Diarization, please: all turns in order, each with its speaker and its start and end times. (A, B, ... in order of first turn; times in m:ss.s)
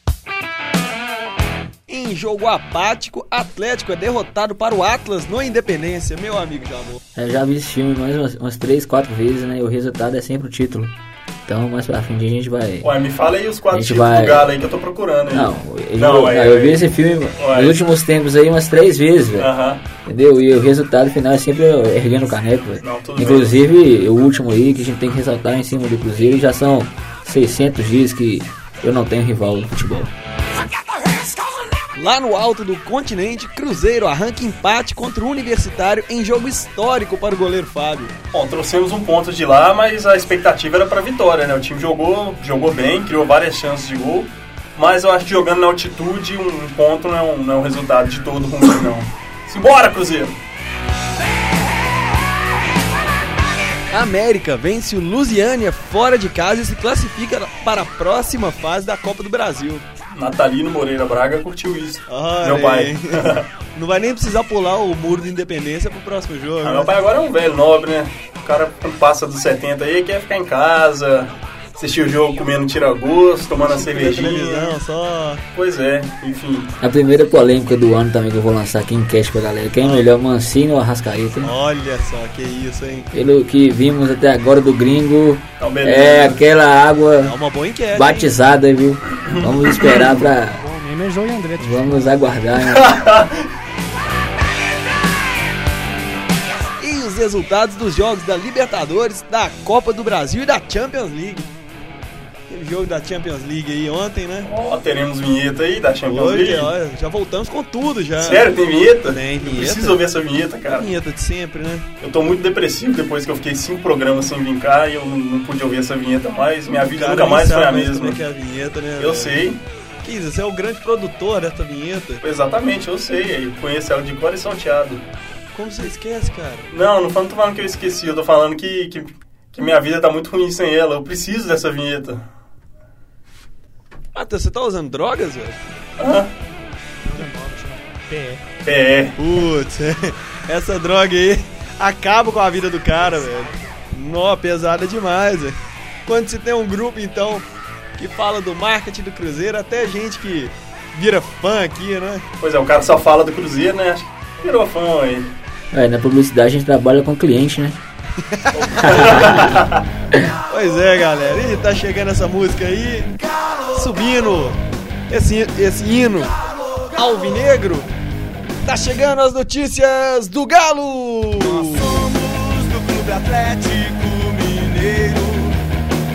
0:01.9-0:07.0 A
0:07.1-0:10.9 B
0:11.4-0:12.9 B
0:12.8-0:16.8 C
0:13.7-0:14.6 B
0:15.3-0:19.5 B
0:17.4-0:17.8 C
0:19.4-0:19.8 C
0:20.0-0:30.1 B
0:22.8-0:23.6 C
0:31.9-0:38.1 A
0:38.3-0:50.4 C
0:53.9-0:59.8 A
1:00.1-1:03.4 C
1:02.1-1:06.9 A
1:06.6-1:14.7 C
1:13.5-1:15.4 A
1:15.5-1:16.7 C
1:16.8-1:21.5 B
1:21.4-1:23.1 A
1:23.1-1:27.3 B
1:25.6-1:26.4 C
1:27.2-1:28.3 A
1:27.9-1:30.6 B
1:29.2-1:30.1 C
1:30.4-1:32.2 D
1:31.6-1:33.0 B
1:32.7-1:33.4 C
1:36.8-1:41.5 A
1:42.5-1:44.5 A
1:44.4-1:46.7 C
1:46.0-1:48.5 A
1:48.2-1:50.9 C
1:49.0-1:50.0 A
1:50.7-1:51.9 A
1:52.0-1:58.2 C
1:56.7-1:59.4 A
1:59.0-1:59.6 C
2:00.0-2:02.2 A
2:02.2-2:05.0 C
2:05.5-2:06.7 A
2:06.7-2:12.2 C
2:14.1-2:15.6 A
2:16.0-2:16.3 C
2:17.0-2:18.4 D
2:18.6-2:19.2 C
2:19.2-2:25.6 A
2:26.1-2:27.4 A
2:28.0-2:32.2 A
2:32.4-2:35.3 C
2:35.7-2:37.8 B
2:38.2-2:39.4 A
2:38.6-2:39.8 C
2:38.8-2:39.5 B
2:40.5-2:43.1 A
2:43.7-2:44.6 A
2:45.1-2:46.3 A
2:46.9-2:47.9 A
2:48.6-2:52.1 A
2:51.4-2:55.6 E